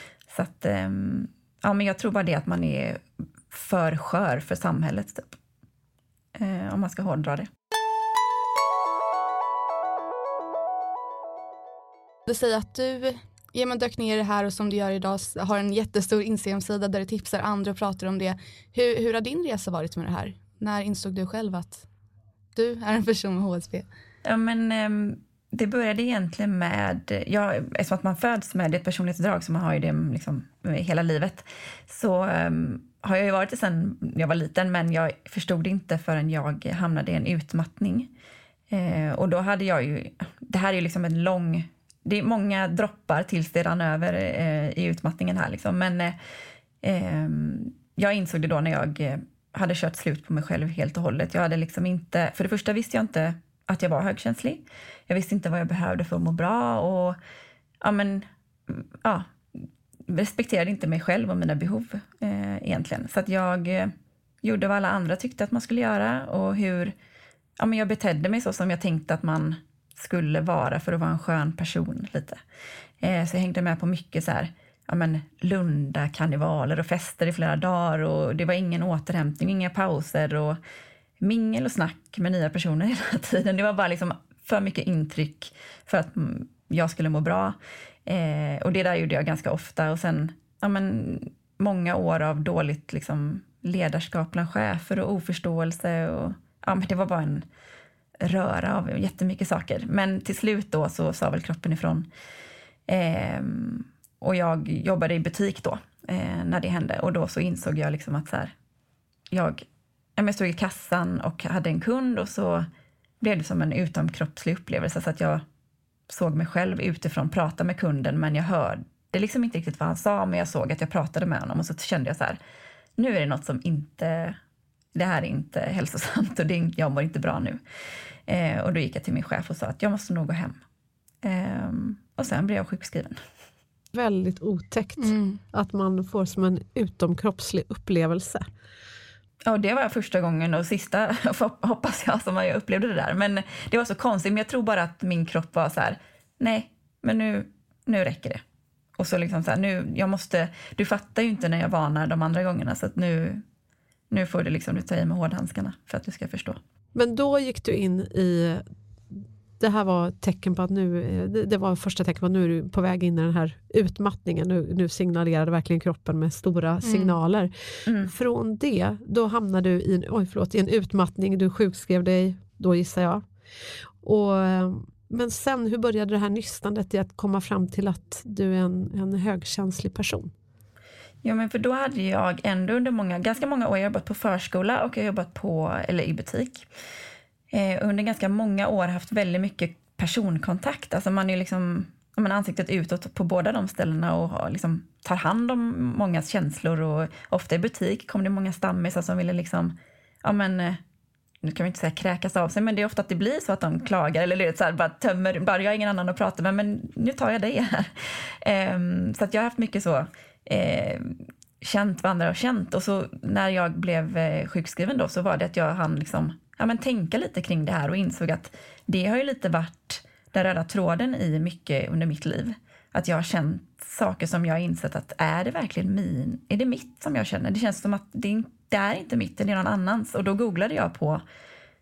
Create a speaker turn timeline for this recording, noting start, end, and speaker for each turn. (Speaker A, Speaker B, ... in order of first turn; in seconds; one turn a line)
Speaker A: 0.3-5.4
Speaker A: 6.4-7.5
Speaker B: 12.2-21.8
Speaker B: 22.6-23.9
Speaker A: 24.2-38.1
Speaker A: 38.7-46.2
Speaker A: 46.8-57.2
Speaker A: 57.8-66.9
Speaker A: 67.6-72.4
Speaker A: 73.0-80.6
Speaker A: 81.2-97.5
Speaker A: 98.2-102.1
Speaker A: 102.9-108.5
Speaker A: 109.3-109.6
Speaker A: 110.2-112.7
Speaker A: 113.2-115.4
Speaker A: 116.1-122.4
Speaker A: 123.0-124.4
Speaker A: 124.9-127.6
Speaker A: 128.3-130.6
Speaker A: 131.2-133.2
Speaker C: 133.9-138.5
Speaker B: 135.0-135.4
Speaker A: 139.4-148.4
Speaker A: 149.0-153.4
Speaker A: 154.1-156.6
Speaker C: 156.9-173.2
Speaker B: 166.8-167.2
Speaker A: 167.9-168.1
Speaker C: 174.0-180.3
Speaker A: 181.2-186.7
Speaker A: 187.5-200.8
Speaker A: 201.4-231.2